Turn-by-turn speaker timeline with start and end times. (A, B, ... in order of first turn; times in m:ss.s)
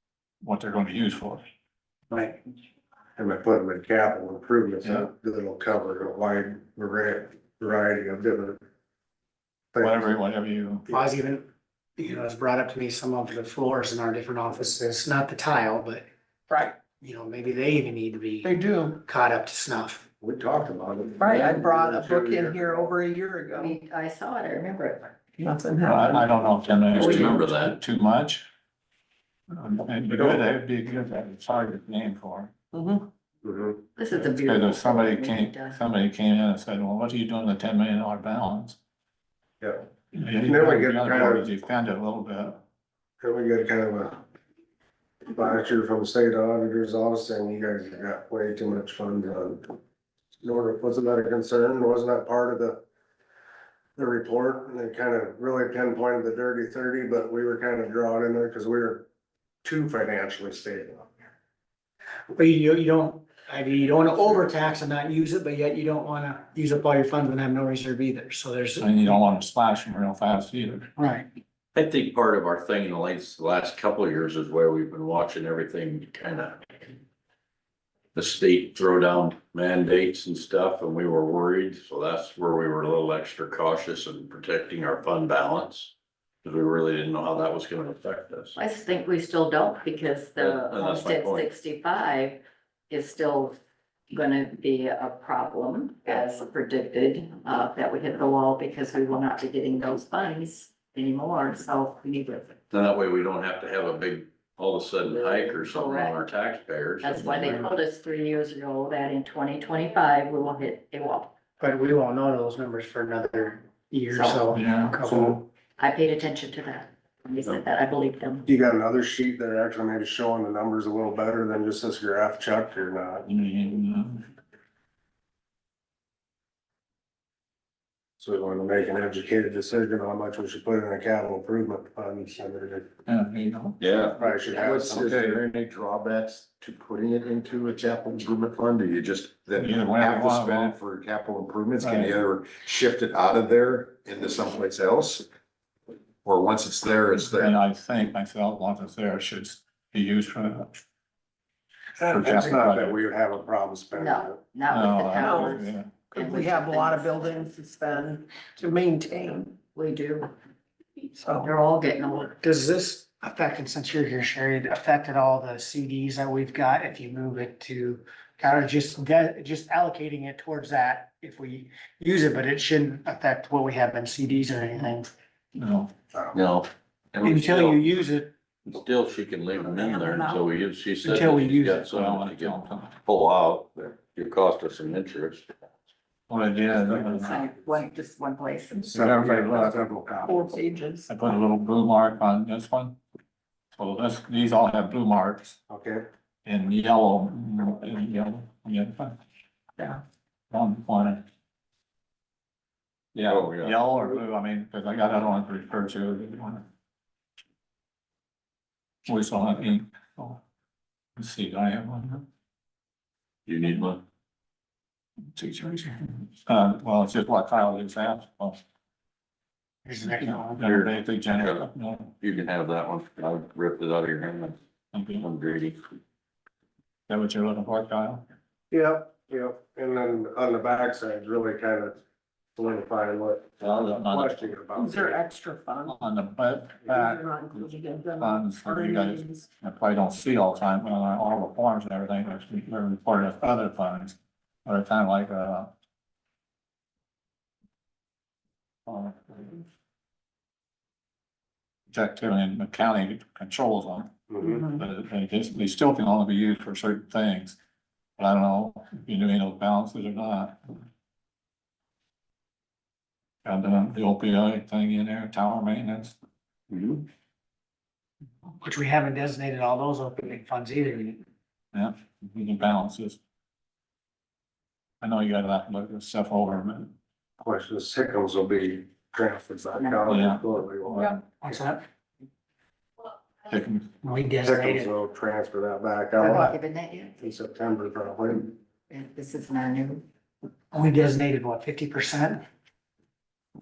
0:00.4-0:01.4 A
0:02.1-0:02.4 B
0:03.2-0:08.6 C
0:09.7-0:10.1 C
0:09.8-0:10.9 A
0:10.9-0:16.1 B
0:16.5-0:16.8 D
0:16.9-0:20.0 B
0:18.4-0:19.0 D
0:20.2-0:22.8 C
0:21.2-0:23.8 D
0:23.6-0:25.1 E
0:25.4-0:26.3 D
0:25.8-0:28.4 A
0:27.0-0:27.8 F
0:27.0-0:27.5 E
0:29.5-0:32.5 A
0:30.1-0:30.4 C
0:32.7-0:33.1 D
0:33.4-0:33.8 C
0:34.0-0:35.8 E
0:34.1-0:38.8 A
0:39.6-0:39.9 C
0:40.1-0:42.6 A
0:40.4-0:41.5 C
0:43.2-0:44.2 C
0:45.3-0:49.8 C
0:50.4-0:52.8 C
0:54.0-0:59.1 C
0:59.6-1:01.1 C
1:02.3-1:09.2 B
1:08.8-1:10.9 A
1:11.0-1:11.3 B
1:11.8-1:16.9 F
1:18.2-1:28.6 F
1:28.6-1:33.6 E
1:30.4-1:31.5 F
1:34.1-1:42.6 E
1:42.7-1:47.6 F
1:45.1-1:46.2 E
1:47.0-1:51.3 E
1:51.6-1:55.4 B
1:54.1-1:55.0 E
1:54.5-1:54.9 A
1:55.1-1:55.4 C
1:55.8-1:58.5 E
1:58.5-2:03.3 C
2:03.3-2:04.3 A
2:08.2-2:12.9 C
2:13.1-2:13.8 A
2:13.8-2:14.2 F
2:14.2-2:15.2 C
2:14.3-2:25.3 G
2:15.0-2:15.4 A
2:19.6-2:20.8 A
2:21.8-2:22.2 A
2:26.2-2:27.5 G
2:27.4-2:30.7 A
2:32.0-2:34.4 C
2:32.1-2:33.0 A
2:33.9-2:37.4 E
2:34.7-2:35.9 A
2:35.1-2:35.6 D
2:36.1-2:39.6 D
2:39.7-2:40.3 E
2:41.2-2:41.5 D
2:41.4-2:42.4 E
2:42.4-2:55.1 B
2:55.6-2:55.9 A
2:56.1-2:56.4 C
2:56.3-2:57.9 F
2:57.2-2:58.3 B
2:58.7-3:05.4 F
2:59.6-3:00.5 D
3:01.0-3:01.9 B
3:01.9-3:03.0 A
3:06.3-3:07.4 A
3:07.1-3:08.8 E
3:08.9-3:10.4 C
3:08.9-3:09.8 A
3:10.3-3:11.1 D
3:11.1-3:13.0 A
3:13.8-3:15.6 A
3:15.7-3:16.0 C
3:16.4-3:19.2 A
3:20.5-3:21.2 A
3:23.2-3:26.6 A
3:23.3-3:23.8 F
3:29.1-3:30.4 A
3:31.2-3:32.2 A
3:33.5-3:34.0 F
3:35.4-3:38.6 A
3:39.9-3:40.7 B
3:40.1-3:42.1 A
3:40.6-3:41.7 F
3:42.2-3:44.6 F
3:44.9-3:45.3 A
3:45.2-3:45.8 F
3:47.1-3:48.2 A
3:48.7-3:52.0 C
3:52.6-3:55.2 C
3:53.6-3:54.5 A
3:54.8-3:56.0 D
3:55.9-3:57.6 A
3:56.8-3:59.5 D
3:58.2-4:05.7 A
4:08.9-4:09.6 A
4:11.9-4:14.1 A
4:14.3-4:14.6 C
4:14.6-4:17.6 A
4:18.2-4:20.6 A
4:23.4-4:26.2 A
4:26.7-4:27.0 F
4:28.6-4:31.2 B
4:31.7-4:33.2 A
4:35.0-4:36.9 A
4:37.4-4:41.1 C
4:39.8-4:40.2 E
4:40.1-4:41.2 A
4:41.4-4:41.8 B
4:43.5-4:43.9 A
4:44.0-4:45.0 B
4:44.4-4:46.5 C
4:46.2-4:47.2 E
4:47.2-4:48.5 C
4:48.9-4:50.0 E
4:50.7-4:52.4 B